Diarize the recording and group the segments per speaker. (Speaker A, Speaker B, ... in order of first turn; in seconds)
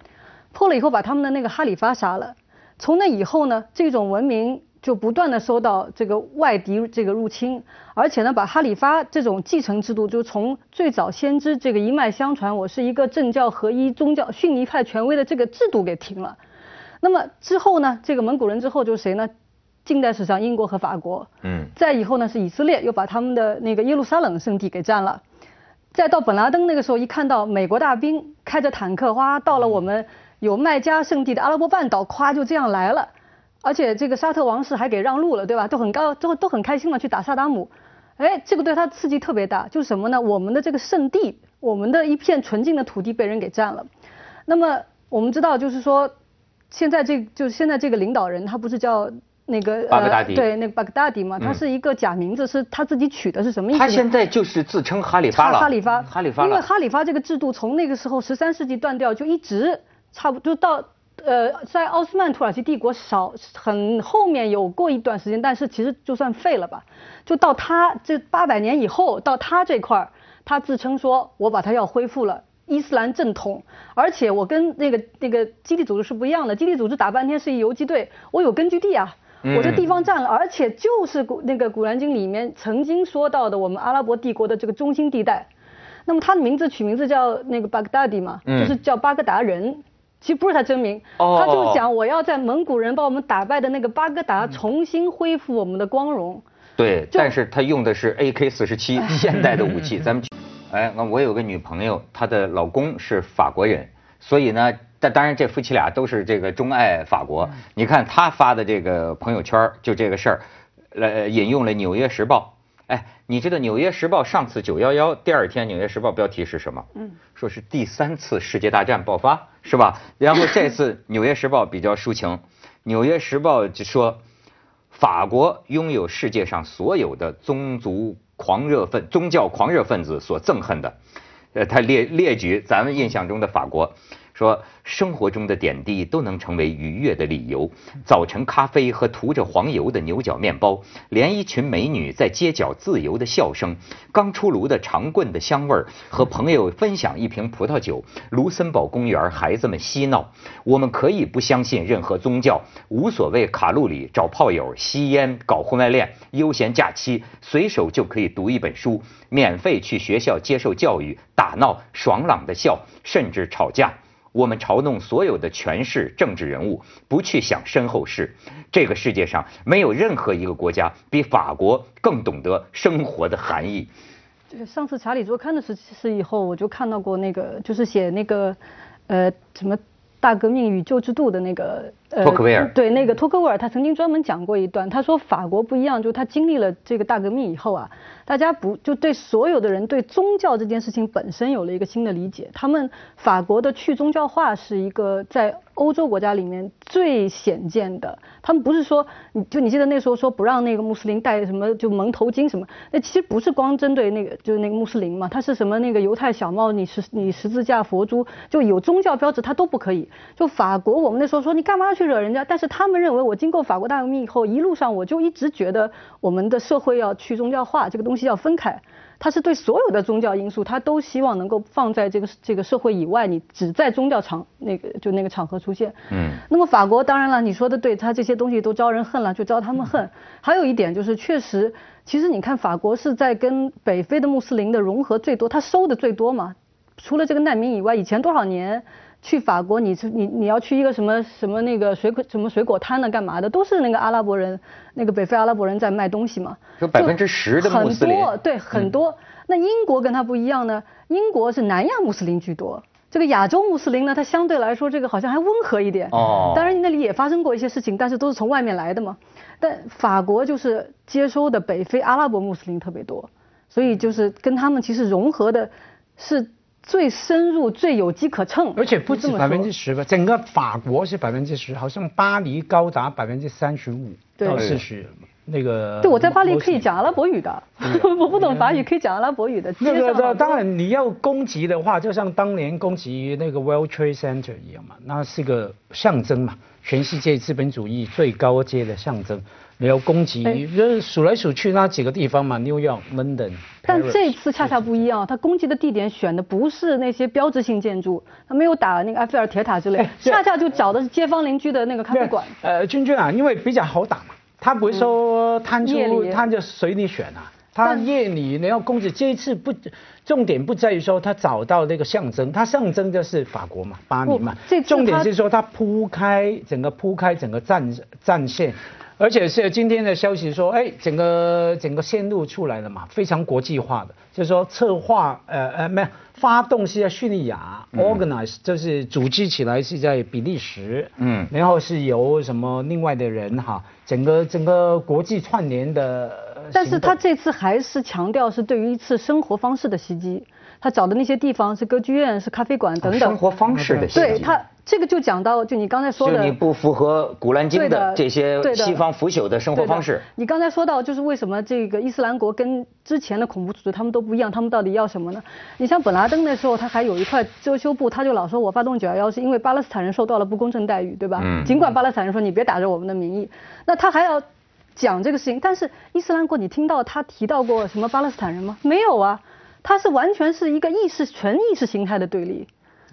Speaker A: 0.5-16.4, 17.0-19.3, 19.9-25.2, 25.9-33.1, 33.6-43.9, 44.5-46.1, 46.7-54.0, 55.3-85.5, 86.1-96.4, 174.5-178.6, 179.1-269.7, 274.4-274.6, 276.0-280.6, 293.9-302.6, 305.8-306.5, 314.3-315.3, 336.7-343.4, 344.1-346.6, 347.7-349.0, 349.7-364.4, 365.0-372.7
Speaker B: 21.4-21.7, 49.9-50.5, 53.7-56.6, 79.4-79.8, 88.5-88.8, 91.2-91.8, 96.8-124.2, 124.9-130.9, 131.5-173.9, 182.2-182.7, 226.1-226.4, 246.8-248.9, 256.1-256.7, 274.5-274.8, 327.9-328.2, 331.2-331.5, 343.0-344.6, 346.2-350.2, 361.4-361.7
Speaker C: 268.8-276.9, 277.8-278.8, 279.8-294.8, 300.0-300.4, 302.1-337.2, 343.8-344.4